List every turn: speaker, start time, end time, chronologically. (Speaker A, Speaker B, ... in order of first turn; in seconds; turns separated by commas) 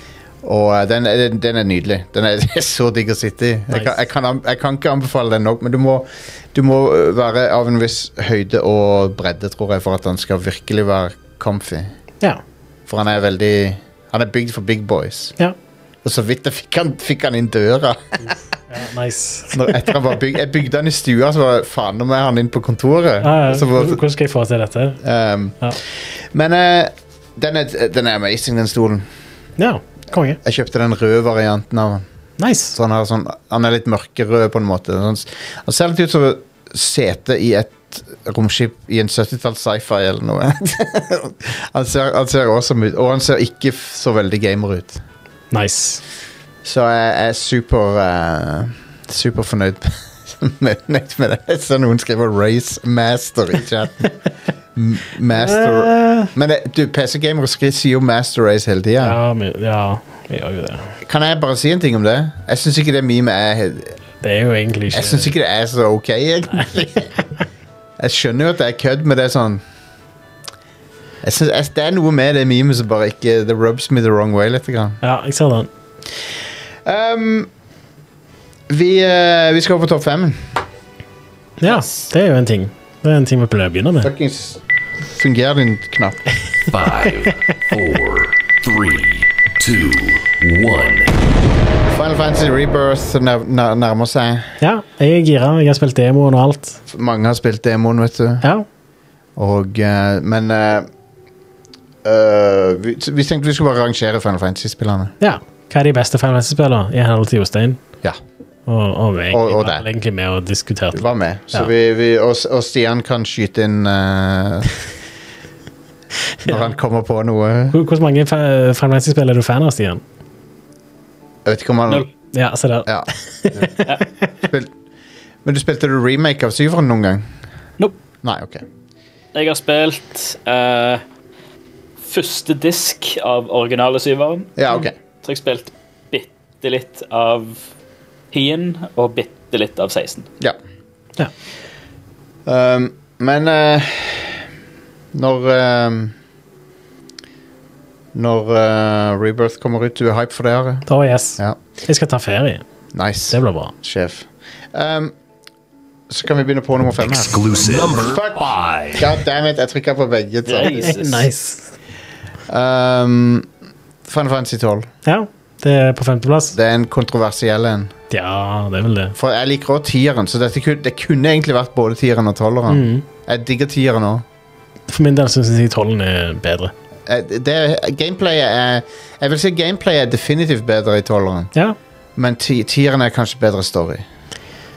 Speaker A: 0.4-11.9, Speaker A: 12.9-15.3, Speaker A: 16.0-18.4, Speaker B: 18.7-19.9, Speaker A: 19.5-24.0, Speaker B: 23.2-25.0, Speaker A: 25.0-29.1, Speaker B: 29.6-30.4, Speaker A: 30.4-32.0, Speaker B: 32.4-32.8, Speaker A: 32.7-45.0, Speaker B: 45.5-46.0, Speaker A: 46.6-54.1, Speaker A: 54.7-59.2, Speaker B: 55.4-56.3, Speaker B: 59.0-60.9, Speaker A: 61.0-64.0, Speaker B: 64.2-65.3, Speaker A: 64.9-67.1, Speaker A: 68.0-69.6, Speaker A: 71.2-75.0, Speaker B: 75.0-75.7, Speaker A: 76.8-77.5, Speaker A: 78.7-80.6, Speaker B: 81.6-84.1, Speaker A: 84.0-86.3, Speaker C: 86.7-91.1, Speaker A: 91.9-94.6, Speaker B: 94.6-96.8, Speaker A: 96.9-98.5, Speaker A: 99.3-100.9, Speaker A: 102.0-105.1, Speaker B: 105.2-107.8, Speaker B: 108.7-111.7, Speaker A: 109.3-109.8, Speaker A: 110.9-114.8, Speaker A: 116.4-117.8, Speaker B: 117.7-120.0, Speaker A: 121.4-122.1, Speaker B: 122.3-124.0, Speaker A: 122.8-123.7, Speaker A: 124.4-124.7, Speaker A: 125.4-127.3, Speaker A: 128.2-128.6, Speaker D: 129.3-131.0, Speaker D: 132.0-134.7, Speaker A: 134.6-134.9, Speaker D: 135.2-137.7, Speaker D: 138.3-140.3, Speaker A: 142.4-144.5, Speaker A: 145.1-146.1, Speaker A: 148.1-150.9, Speaker B: 150.9-152.6, Speaker A: 152.9-155.1, Speaker B: 153.3-153.7, Speaker A: 156.1-161.0, Speaker C: 157.0-159.1, Speaker D: 160.4-161.2, Speaker B: 160.7-161.7, Speaker A: 162.5-163.5, Speaker A: 164.1-164.9, Speaker B: 165.1-166.6, Speaker A: 166.5-167.9, Speaker B: 168.1-169.1, Speaker A: 169.2-174.2, Speaker B: 172.7-173.0, Speaker B: 174.9-176.7, Speaker A: 177.1-181.5, Speaker A: 182.2-184.0